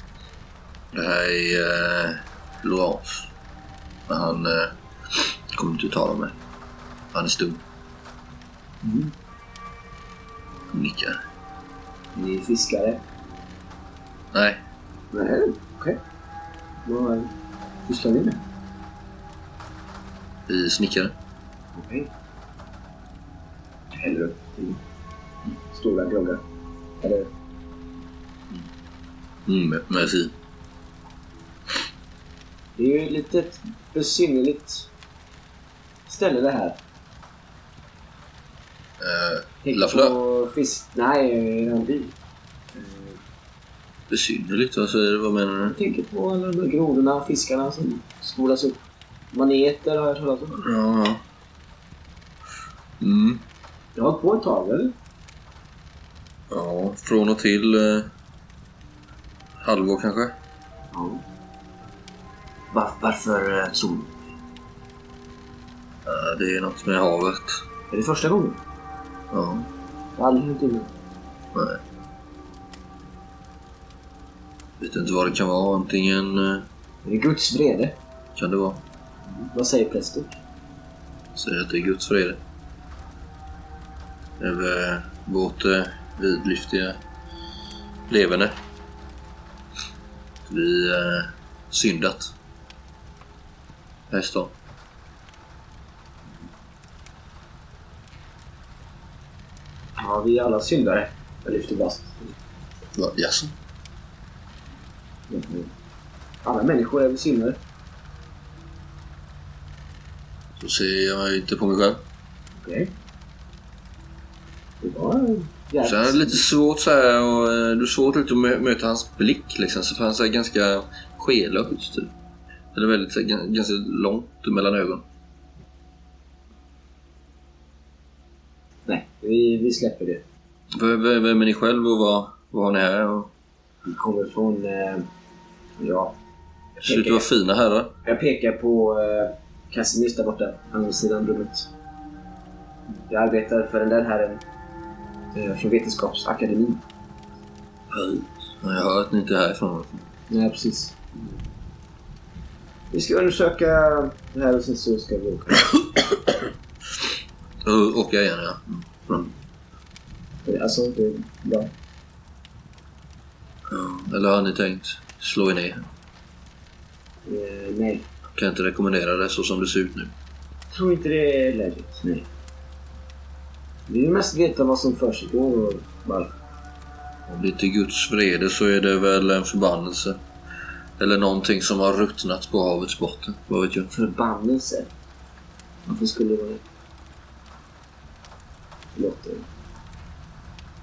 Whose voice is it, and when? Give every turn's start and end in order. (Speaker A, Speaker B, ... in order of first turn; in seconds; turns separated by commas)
Speaker A: 0.9-3.3, Speaker A: 4.1-6.3, Speaker A: 7.1-7.6, Speaker B: 8.8-9.1, Speaker A: 10.7-11.2, Speaker B: 12.1-13.0, Speaker A: 14.3-14.6, Speaker B: 15.1-16.0, Speaker B: 16.8-17.3, Speaker B: 17.9-18.4, Speaker A: 20.5-21.1, Speaker B: 21.7-22.1, Speaker B: 23.9-24.8, Speaker B: 25.7-26.4, Speaker B: 27.0-27.3, Speaker A: 29.4-30.3, Speaker B: 32.8-34.9, Speaker B: 36.0-36.8, Speaker A: 39.0-40.1, Speaker B: 39.6-42.1, Speaker B: 42.7-43.2, Speaker A: 44.1-45.8, Speaker B: 45.7-48.8, Speaker B: 49.3-50.6, Speaker A: 50.6-51.2, Speaker A: 53.0-53.4, Speaker B: 53.9-54.9, Speaker A: 56.5-58.1, Speaker A: 59.6-60.3, Speaker B: 60.9-61.2, Speaker B: 62.7-64.1, Speaker A: 66.0-67.6, Speaker B: 67.9-68.6, Speaker A: 69.3-69.7, Speaker B: 70.2-70.9, Speaker A: 71.5-71.8, Speaker A: 74.8-76.7, Speaker B: 77.0-78.0, Speaker A: 78.3-78.8, Speaker B: 79.4-80.3, Speaker A: 81.3-82.4, Speaker A: 84.4-87.0, Speaker A: 88.1-88.5, Speaker A: 90.5-92.3, Speaker A: 94.1-94.5, Speaker B: 100.0-102.3, Speaker A: 102.9-103.5, Speaker B: 105.3-105.7, Speaker B: 106.4-107.6, Speaker A: 110.6-112.0, Speaker B: 112.5-112.9, Speaker B: 114.8-116.4, Speaker A: 115.8-122.1, Speaker A: 122.7-125.0, Speaker B: 128.8-130.2, Speaker A: 130.7-133.3, Speaker B: 133.8-135.1, Speaker B: 135.8-136.1, Speaker B: 136.8-137.2, Speaker A: 136.8-137.9, Speaker B: 138.0-141.7, Speaker B: 143.1-144.4, Speaker B: 145.3-146.8, Speaker A: 147.9-150.0, Speaker B: 150.3-151.4, Speaker B: 152.9-155.8, Speaker A: 157.6-159.3, Speaker B: 160.4-161.7, Speaker A: 163.7-165.8, Speaker B: 167.2-168.0, Speaker A: 168.3-170.1, Speaker B: 170.7-172.3, Speaker B: 173.9-176.3, Speaker A: 177.3-180.2, Speaker A: 181.0-183.9, Speaker B: 183.9-184.9, Speaker B: 185.9-186.6, Speaker B: 188.9-189.4